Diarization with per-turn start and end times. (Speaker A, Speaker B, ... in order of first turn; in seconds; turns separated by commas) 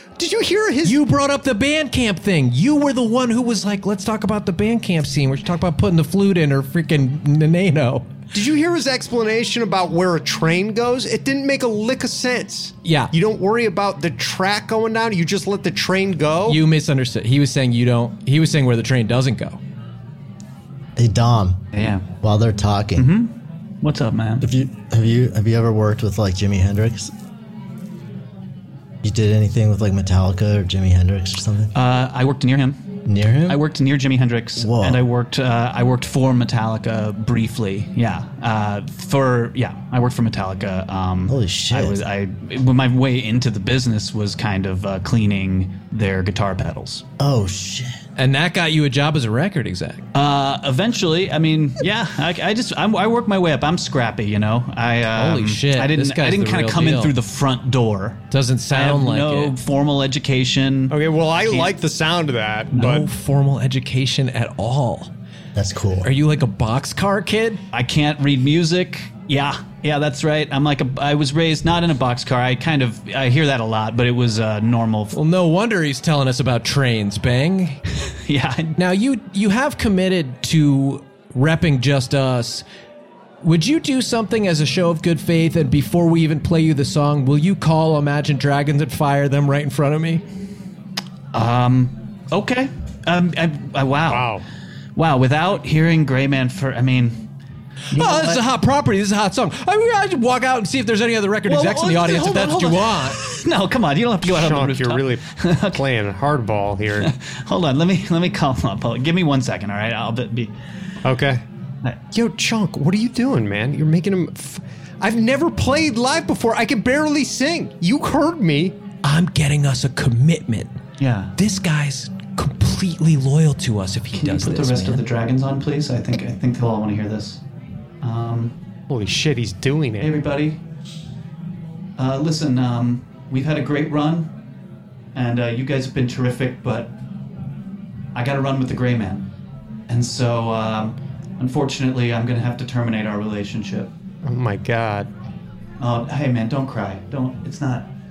Speaker A: 0.2-1.0, Speaker B: 0.8-8.1, Speaker A: 8.3-16.6, Speaker B: 12.8-13.1, Speaker B: 16.5-19.6, Speaker C: 20.9-21.6, Speaker D: 21.7-22.0, Speaker C: 22.2-23.1, Speaker D: 23.0-24.5, Speaker C: 24.4-27.1, Speaker C: 29.0-31.7, Speaker D: 31.7-32.8, Speaker C: 33.1-33.6, Speaker D: 33.5-47.0, Speaker C: 34.6-35.0, Speaker C: 41.3-42.0, Speaker C: 47.2-48.0, Speaker B: 48.1-50.0, Speaker D: 50.1-61.7, Speaker B: 55.1-57.1, Speaker B: 58.3-59.5, Speaker A: 60.9-63.1, Speaker B: 62.8-65.1, Speaker C: 65.5-66.1, Speaker B: 66.0-67.6, Speaker D: 67.7-75.2, Speaker B: 75.1-77.8, Speaker D: 78.1-78.7, Speaker B: 78.8-82.6, Speaker B: 83.4-90.2, Speaker D: 91.3-94.4, Speaker A: 94.1-94.4, Speaker D: 95.0-97.2, Speaker B: 97.9-103.2, Speaker D: 97.9-98.4, Speaker D: 101.5-105.8, Speaker A: 104.2-107.1, Speaker D: 107.0-110.5, Speaker A: 111.0-111.4, Speaker A: 112.1-118.8, Speaker B: 119.0-120.8, Speaker D: 121.0-121.3, Speaker B: 121.3-125.0, Speaker D: 124.1-127.4, Speaker D: 128.0-128.5, Speaker A: 128.9-130.1, Speaker D: 130.0-130.6, Speaker D: 132.0-134.3, Speaker D: 135.1-136.9, Speaker D: 138.1-139.3, Speaker D: 139.9-143.9, Speaker A: 144.2-145.1, Speaker D: 145.8-147.9